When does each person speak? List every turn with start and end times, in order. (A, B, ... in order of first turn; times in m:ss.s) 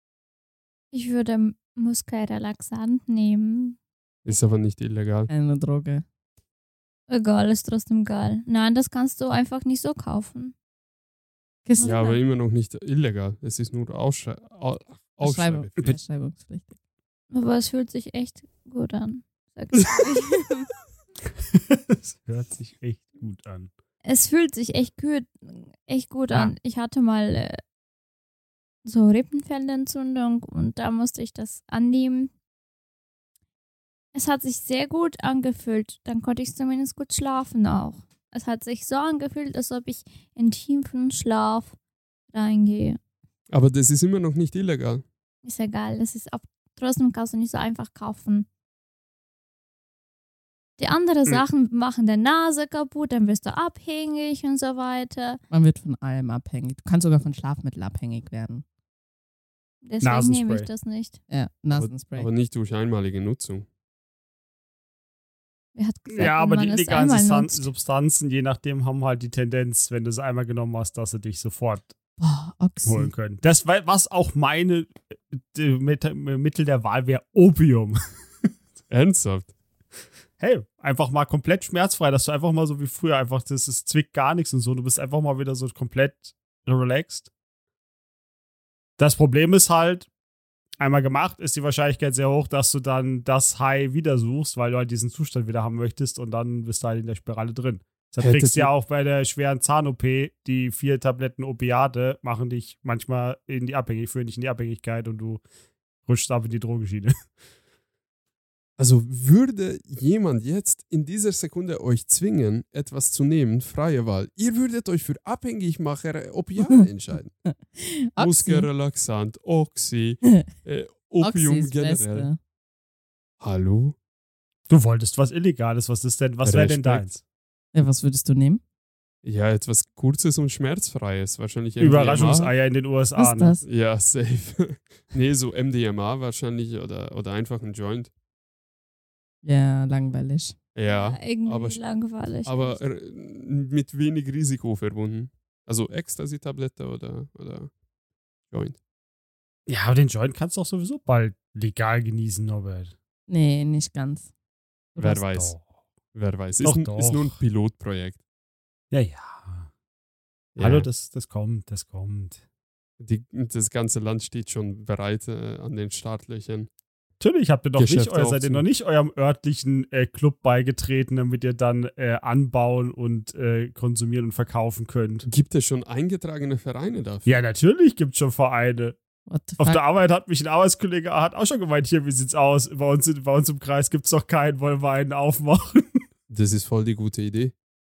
0:00.9-0:03.8 A
0:04.2-0:05.3 B
0:05.3-0:06.0 C
0:07.1-0:10.5 A
0:11.7-0:12.0 C
0:11.8-0:12.2 A
0:11.8-0:16.0 B
0:15.2-0:16.7 C
0:17.3-0:20.7 A
0:21.5-0:23.7 D
0:24.0-0:27.6 A
0:28.8-0:32.3 A
0:34.1-0:41.8 A
0:42.3-0:43.0 A
0:43.5-0:45.0 B
0:45.4-0:48.5 A
0:50.8-0:55.4 A
0:55.5-0:58.6 C
0:59.8-1:01.2 A
1:00.0-1:00.7 D
1:01.3-1:02.3 C
1:01.7-1:03.7 B
1:05.8-1:07.7 A
1:06.1-1:11.9 D
1:12.2-1:13.1 C
1:12.9-1:18.0 D
1:18.9-1:19.5 B
1:20.4-1:27.3 D
1:29.0-1:30.1 D
1:30.8-1:45.4 D
1:38.2-1:38.7 B
1:46.1-1:47.1 D
1:48.8-1:57.3 B
1:57.5-1:58.7 C
1:58.2-2:02.3 B
2:01.2-2:02.4 C
2:03.4-2:04.0 B
2:04.7-2:07.2 D
2:06.4-2:07.1 B
2:07.7-2:08.6 C
2:09.2-2:12.5 B
2:11.8-2:13.6 D
2:13.2-2:13.6 C
2:13.6-2:18.1 B
2:19.4-2:20.6 C
2:20.8-2:21.8 B
2:20.9-2:22.8 A
2:22.4-2:27.7 B
2:28.5-2:28.8 B
2:29.7-2:32.9 D
2:33.3-2:34.3 C
2:35.0-2:35.6 B
2:35.1-2:35.6 D
2:36.1-2:38.2 B
2:36.6-2:37.4 D
2:38.9-2:39.7 D
2:40.6-2:40.9 B
2:40.6-2:42.4 D
2:43.0-2:46.7 B
2:47.2-2:55.3 D
2:47.8-2:48.7 B
2:55.2-2:57.3 B
2:57.2-2:59.0 D
2:59.3-2:59.8 C
2:59.6-3:06.0 D
3:06.3-3:07.5 B